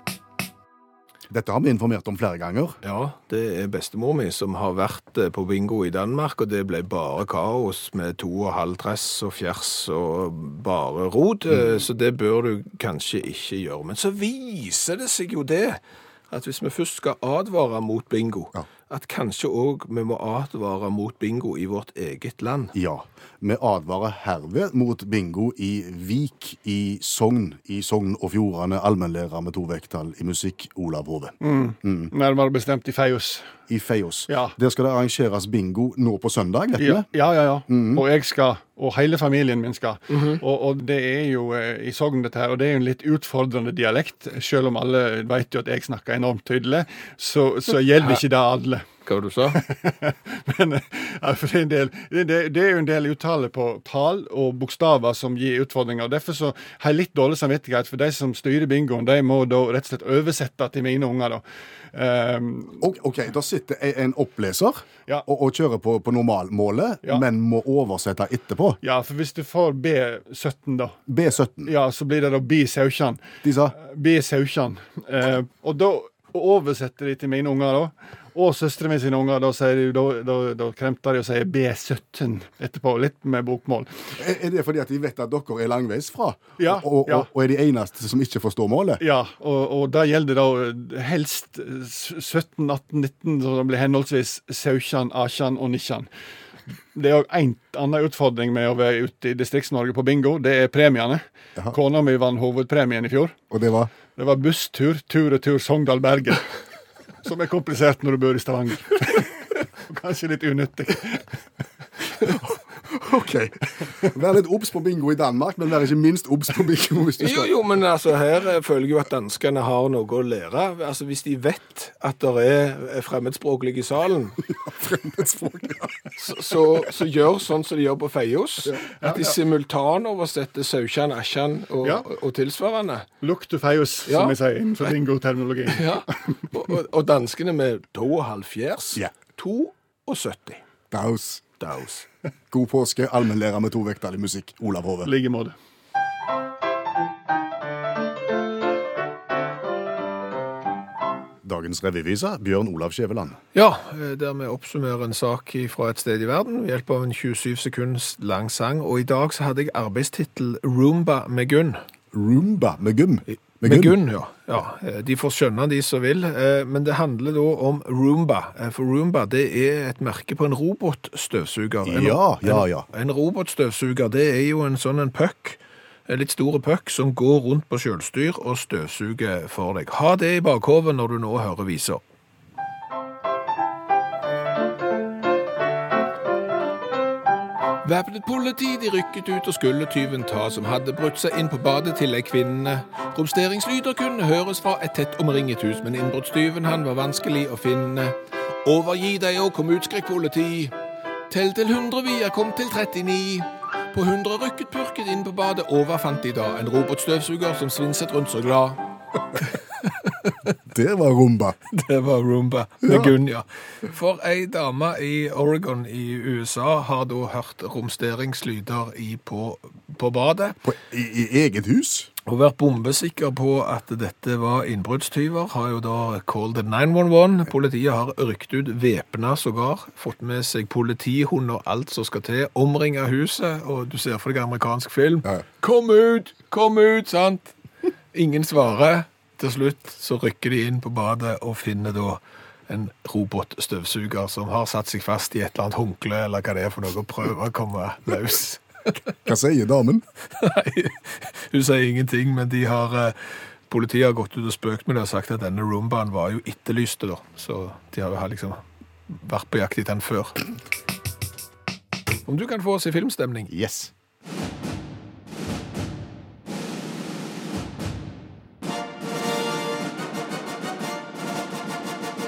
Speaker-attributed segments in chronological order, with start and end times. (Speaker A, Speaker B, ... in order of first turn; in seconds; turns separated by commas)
Speaker A: 1.3-2.8, Speaker B: 2.8-22.7, Speaker A: 11.5-11.8, Speaker A: 22.7-32.1, Speaker C: 31.4-33.5, Speaker A: 33.7-37.1, Speaker C: 34.3-34.5, Speaker C: 36.8-48.9, Speaker A: 37.7-38.0, Speaker B: 49.0-49.6, Speaker C: 49.5-62.8, Speaker A: 62.8-68.8, Speaker C: 68.8-71.0, Speaker A: 71.1-71.7, Speaker C: 71.6-84.0, Speaker A: 73.4-73.7, Speaker A: 84.2-89.0, Speaker C: 86.6-87.3, Speaker C: 89.0-96.1, Speaker C: 96.9-103.4, Speaker A: 103.5-103.9, Speaker C: 104.1-106.5, Speaker C: 107.2-111.4, Speaker A: 112.2-117.5, Speaker B: 117.2-124.4, Speaker A: 124.5-126.1, Speaker B: 126.2-133.1, Speaker C: 129.0-129.3, Speaker C: 133.2-136.0, Speaker B: 134.1-134.9, Speaker B: 135.7-140.6, Speaker A: 140.9-141.4, Speaker B: 141.6-142.1, Speaker A: 142.5-145.1, Speaker C: 145.0-145.6, Speaker A: 151.4-153.4, Speaker B: 153.5-161.8, Speaker A: 162.1-163.9, Speaker B: 163.3-182.0, Speaker A: 171.8-172.8, Speaker B: 187.8-200.7, Speaker B: 201.3-208.8, Speaker B: 209.4-210.5, Speaker A: 210.7-211.6, Speaker B: 211.7-220.6, Speaker A: 212.8-213.1, Speaker A: 220.6-222.1, Speaker B: 222.2-237.5, Speaker B: 238.1-248.6, Speaker A: 249.2-250.0, Speaker B: 250.3-253.2, Speaker B: 253.7-260.4, Speaker B: 262.2-263.5, Speaker A: 263.5-263.9